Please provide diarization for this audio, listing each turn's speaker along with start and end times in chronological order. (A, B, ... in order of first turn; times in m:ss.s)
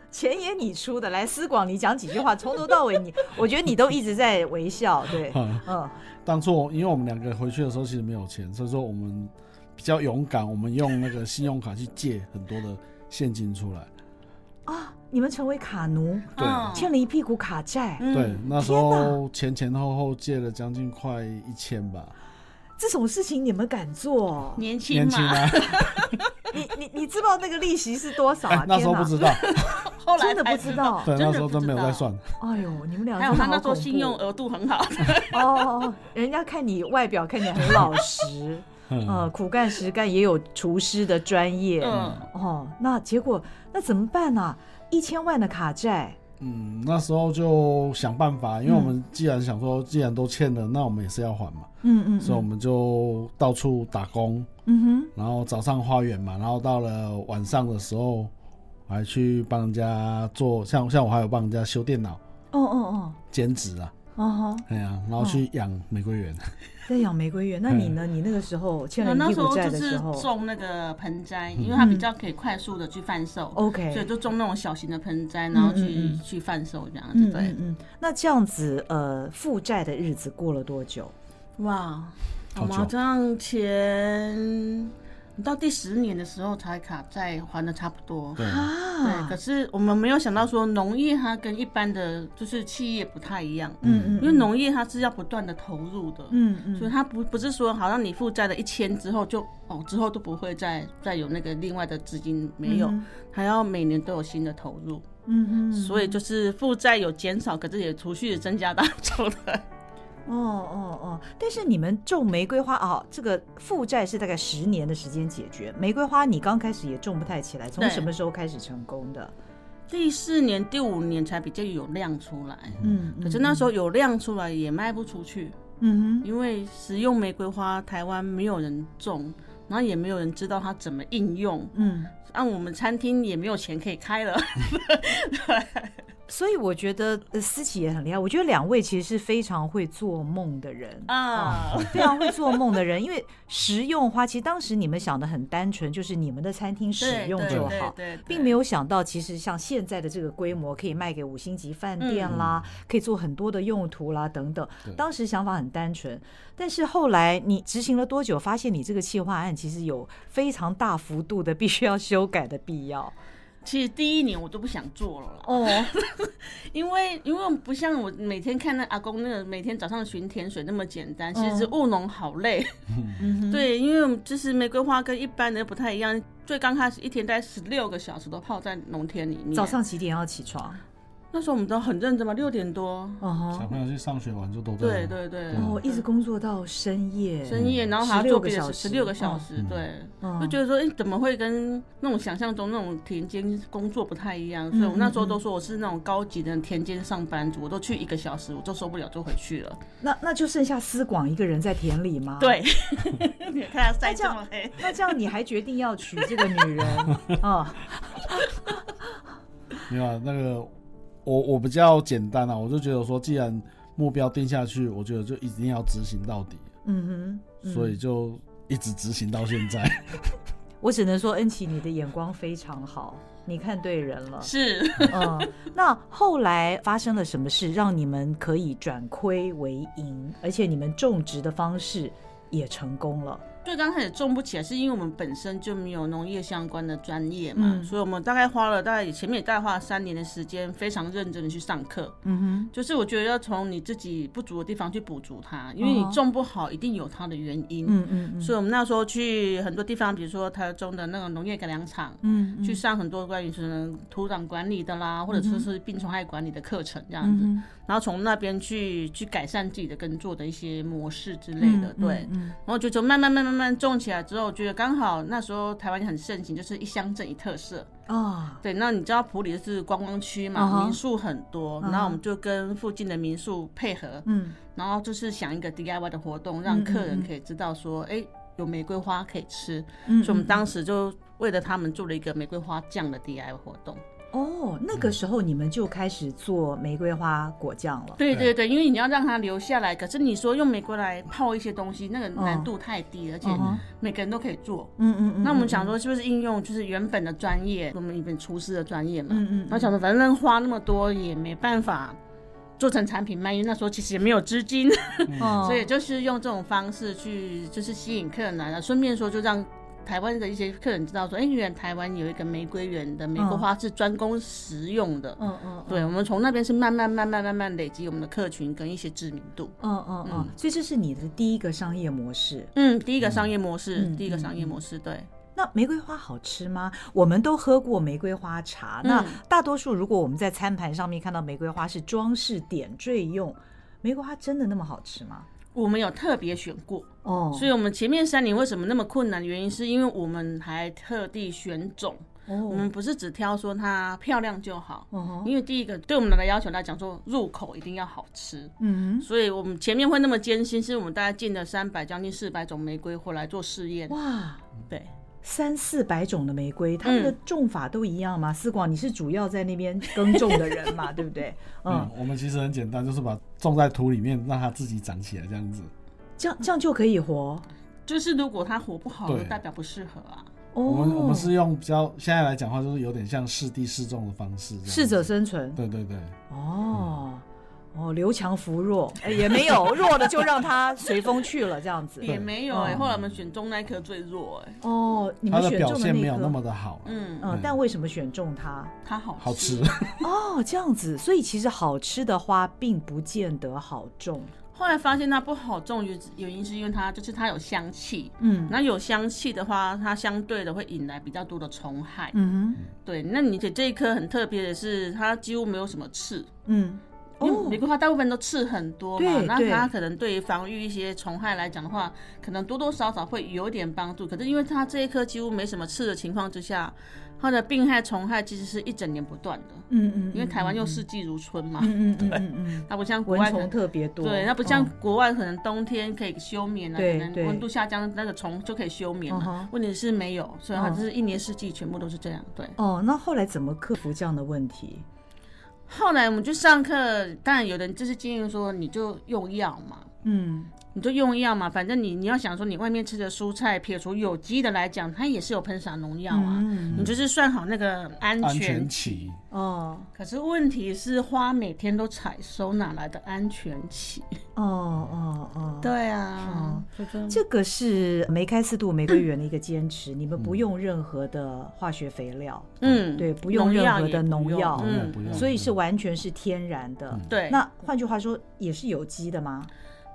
0:00.1-0:06.0 A
0:05.3-0:05.6 B
0:06.2-0:13.9 B
0:14.7-0:19.2 A
0:16.4-0:16.9 C
0:16.4-0:16.7 B
0:18.0-0:18.5 C
0:18.1-0:22.1 B
0:22.8-0:24.6 A
0:24.6-0:26.3 C
0:24.9-0:26.1 B
0:26.5-0:29.2 A
0:28.5-0:29.6 B
0:29.2-0:32.1 C
0:30.2-0:31.1 A
0:31.0-0:32.3 B
0:32.4-0:34.2 A
0:33.2-0:35.7 C
0:35.3-0:46.2 A
0:38.9-0:39.3 B
0:41.8-0:42.3 C
0:41.9-0:42.2 B
0:46.4-0:51.7 B
0:48.7-0:48.9 A
0:51.8-0:52.5 A
0:52.2-0:54.5 B
0:54.7-0:55.1 A
0:55.2-0:58.3 B
0:58.9-1:02.2 B
1:02.5-1:03.2 A
1:03.3-1:03.9 B
1:04.2-1:04.7 A
1:04.7-1:06.5 B
1:05.2-1:05.4 A
1:06.9-1:10.3 A
1:07.7-1:07.9 B
1:09.0-1:17.5 C
1:11.8-1:12.1 A
1:13.5-1:14.1 A
1:15.5-1:16.2 A
1:17.1-1:21.1 A
1:21.6-1:28.4 C
1:22.6-1:22.9 B
1:28.4-1:28.7 B
1:28.4-1:29.4 A
1:29.0-1:45.1 C
1:33.8-1:34.2 B
1:33.8-1:34.5 A
1:36.3-1:36.9 A
1:42.6-1:43.0 A
1:45.3-1:46.2 A
1:45.7-1:49.6 C
1:50.3-1:59.3 A
1:57.8-1:58.1 C
1:59.9-2:05.6 C
2:02.8-2:03.7 A
2:05.8-2:06.3 A
2:06.2-2:16.0 C
2:11.7-2:12.1 A
2:16.3-2:43.1 A
2:21.1-2:22.6 C
2:27.0-2:28.6 C
2:27.5-2:27.7 B
2:32.0-2:32.4 C
2:32.3-2:32.6 B
2:43.6-2:59.8 C
2:45.4-2:45.9 A
2:51.3-2:51.7 A
2:53.2-2:53.7 A
2:59.5-3:00.8 A
3:01.3-3:03.2 C
3:03.2-3:03.8 A
3:03.5-3:05.8 B
3:04.8-3:06.0 C
3:05.6-3:09.5 A
3:07.5-3:19.8 C
3:07.5-3:07.8 B
3:09.6-3:09.8 B
3:10.2-3:10.6 A
3:14.7-3:15.4 A
3:20.0-3:22.6 A
3:22.4-3:25.1 C
3:24.0-3:29.2 A
3:29.9-3:30.7 B
3:31.2-3:36.7 B
3:36.8-3:38.0 A
3:37.7-3:40.4 B
3:40.8-3:44.5 A
3:44.4-3:45.5 C
3:45.0-3:53.4 A
3:53.6-4:02.2 C
3:57.6-3:57.9 A
4:02.2-4:02.7 A
4:02.7-4:27.9 C
4:05.8-4:06.2 A
4:07.9-4:08.5 A
4:12.2-4:12.8 A
4:15.3-4:15.7 A
4:17.2-4:17.6 A
4:21.6-4:22.6 A
4:28.1-4:28.6 A
4:28.6-4:44.0 C
4:30.6-4:31.0 A
4:31.8-4:32.2 A
4:34.3-4:34.6 A
4:36.7-4:37.3 A
4:40.1-4:40.6 A
4:44.3-4:48.2 A
4:48.2-5:02.2 C
4:52.4-4:52.7 A
4:53.4-4:53.8 A
4:55.0-4:55.9 A
4:59.3-4:59.9 A
5:02.8-5:20.5 C
5:05.3-5:05.6 B
5:05.4-5:05.9 A
5:13.4-5:13.6 A
5:15.4-5:16.1 A
5:19.8-5:22.7 A
5:22.8-5:25.3 C
5:24.0-5:24.7 A
5:25.6-5:35.5 A
5:29.0-5:29.4 C
5:35.7-5:54.2 C
5:37.2-5:37.7 A
5:42.5-5:42.9 A
5:45.1-5:45.5 A
5:48.8-5:49.3 A
5:54.1-5:54.6 A
5:55.4-6:02.1 A
5:57.0-5:57.4 C
6:00.3-6:00.9 C
6:01.9-6:05.9 B
6:06.4-6:07.7 A
6:08.1-6:10.5 C
6:09.3-6:09.6 B
6:10.7-6:11.5 A
6:10.8-6:15.2 B
6:14.9-6:15.8 A
6:15.8-6:16.4 B
6:16.5-6:23.0 A
6:22.2-6:24.8 C
6:22.2-6:23.2 B
6:24.8-6:26.6 A
6:25.5-6:27.7 B
6:27.1-6:27.5 C
6:27.4-6:28.9 A
6:29.0-6:30.0 C
6:29.4-6:30.2 B
6:30.2-6:34.5 A
6:34.7-6:42.4 C
6:38.4-6:38.7 A
6:42.3-6:42.8 A
6:43.0-6:46.5 C
6:46.7-6:47.8 A
6:47.4-7:12.8 C
6:49.2-6:49.9 A
6:59.9-7:01.0 A
7:01.8-7:04.9 A
7:07.0-7:07.6 A
7:09.3-7:09.7 A
7:10.7-7:11.0 A
7:12.8-7:15.0 A
7:15.9-7:20.1 C
7:20.2-7:20.7 A
7:20.9-7:29.3 C
7:26.3-7:27.1 A
7:28.4-7:29.4 B
7:29.5-7:30.1 A
7:30.2-7:34.3 C
7:34.6-7:49.7 A
7:35.8-7:37.4 C
7:42.8-7:45.5 C
7:44.8-7:45.7 B
7:47.3-7:47.6 C